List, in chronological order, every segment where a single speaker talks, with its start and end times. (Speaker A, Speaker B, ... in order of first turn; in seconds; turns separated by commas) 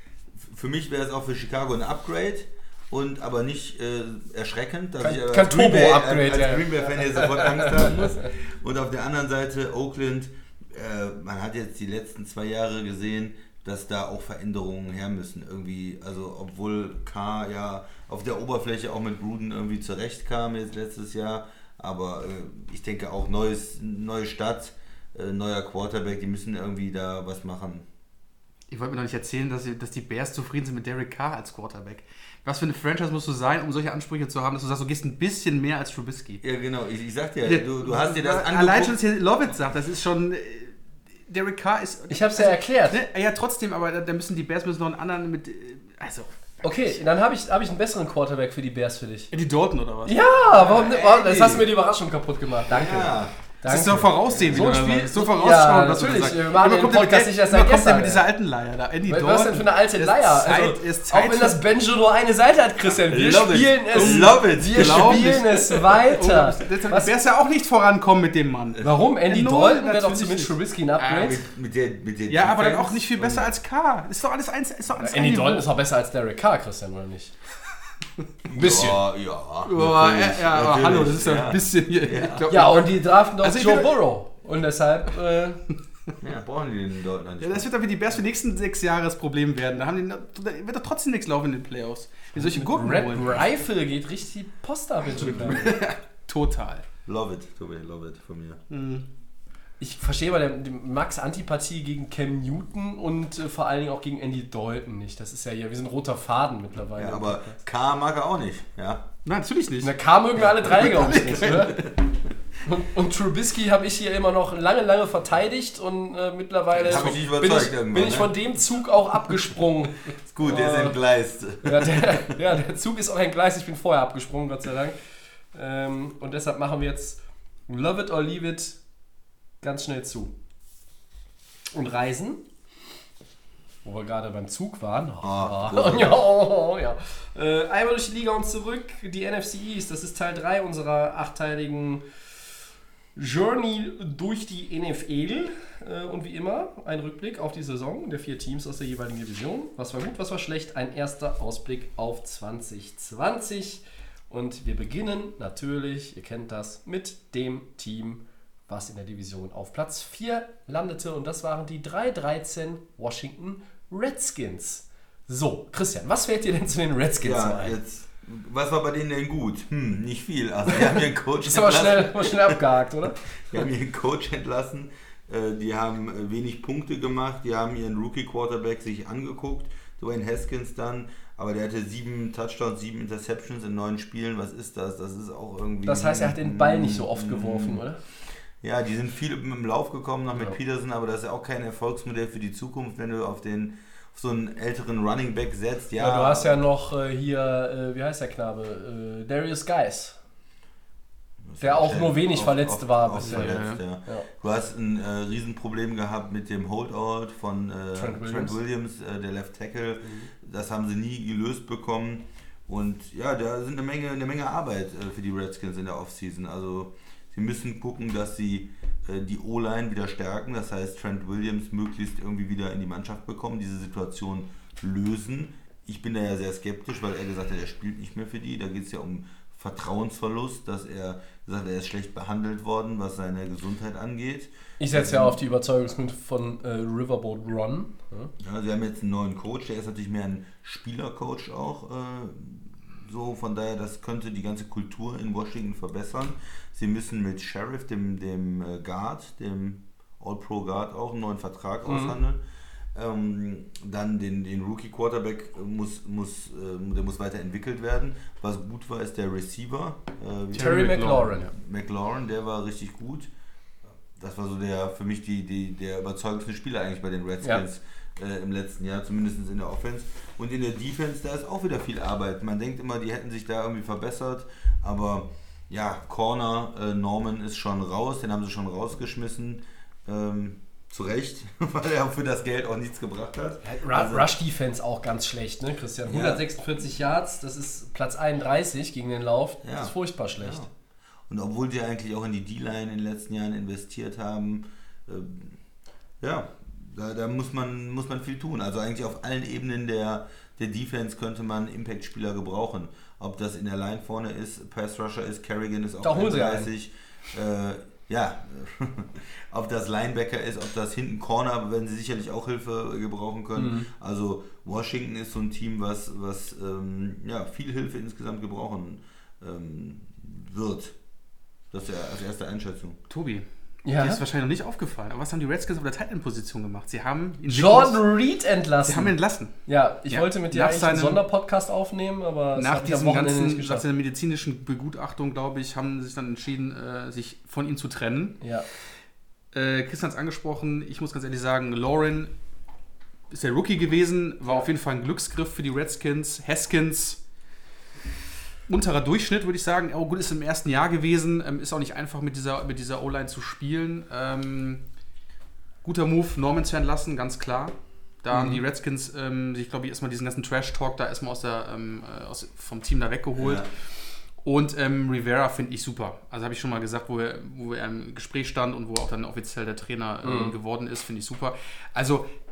Speaker A: 0.3-27.9, Speaker B: 5.0-8.1, Speaker C: 28.7-36.4, Speaker A: 36.4-39.0, Speaker C: 37.5-40.8, Speaker C: 41.3-47.0, Speaker B: 42.1-43.0, Speaker B: 46.6-49.3, Speaker C: 49.3-50.2, Speaker B: 50.0-58.2, Speaker A: 50.5-51.7, Speaker A: 52.7-53.3, Speaker C: 53.7-61.6, Speaker B: 59.1-67.1, Speaker A: 63.1-65.4, Speaker C: 63.9-71.4, Speaker B: 68.8-71.4, Speaker A: 71.2-73.5, Speaker C: 72.3-75.7, Speaker B: 75.0-77.3, Speaker A: 78.5-82.5, Speaker B: 78.5-79.0, Speaker C: 79.6-84.0, Speaker B: 82.5-85.6, Speaker A: 86.2-87.7, Speaker C: 87.4-93.5, Speaker B: 92.4-95.7, Speaker C: 95.2-96.8, Speaker A: 97.1-98.6, Speaker C: 98.7-99.1, Speaker B: 99.8-107.6, Speaker A: 107.0-109.1, Speaker C: 109.2-109.9, Speaker B: 109.8-111.9, Speaker C: 110.6-111.9, Speaker A: 110.9-111.9, Speaker B: 112.6-121.0, Speaker A: 116.8-118.3, Speaker C: 116.8-117.2, Speaker A: 120.2-122.4, Speaker B: 121.6-125.0, Speaker B: 125.5-128.8, Speaker B: 129.6-130.3, Speaker B: 131.7-132.4, Speaker B: 133.8-142.0, Speaker A: 135.2-136.2, Speaker B: 143.2-167.8, Speaker A: 167.2-172.6, Speaker B: 170.7-173.6, Speaker A: 173.3-187.8, Speaker B: 185.8-188.0, Speaker A: 188.6-196.6, Speaker B: 196.0-200.2, Speaker A: 201.4-235.4, Speaker B: 201.6-204.3, Speaker C: 203.2-203.8, Speaker B: 207.9-208.6, Speaker B: 210.0-210.3, Speaker B: 234.8-238.3, Speaker A: 238.4-252.4, Speaker B: 251.8-252.2, Speaker A: 252.9-263.3, Speaker C: 260.5-261.4, Speaker B: 260.6-261.5, Speaker A: 264.1-284.3, Speaker B: 283.6-290.7, Speaker A: 286.1-286.4, Speaker A: 289.6-290.7, Speaker A: 291.3-295.6, Speaker A: 296.2-321.0, Speaker B: 306.0-306.7, Speaker B: 313.6-313.9, Speaker A: 321.7-323.0, Speaker C: 323.1-328.0, Speaker B: 323.9-324.2, Speaker B: 327.5-329.1, Speaker C: 328.9-329.6, Speaker B: 329.7-333.9, Speaker C: 330.1-331.2, Speaker C: 332.6-338.4, Speaker B: 338.4-338.7, Speaker C: 339.5-342.3, Speaker C: 343.3-347.2, Speaker C: 348.7-354.8, Speaker C: 355.8-372.3, Speaker B: 358.3-358.6, Speaker A: 363.4-363.7, Speaker B: 370.2-370.6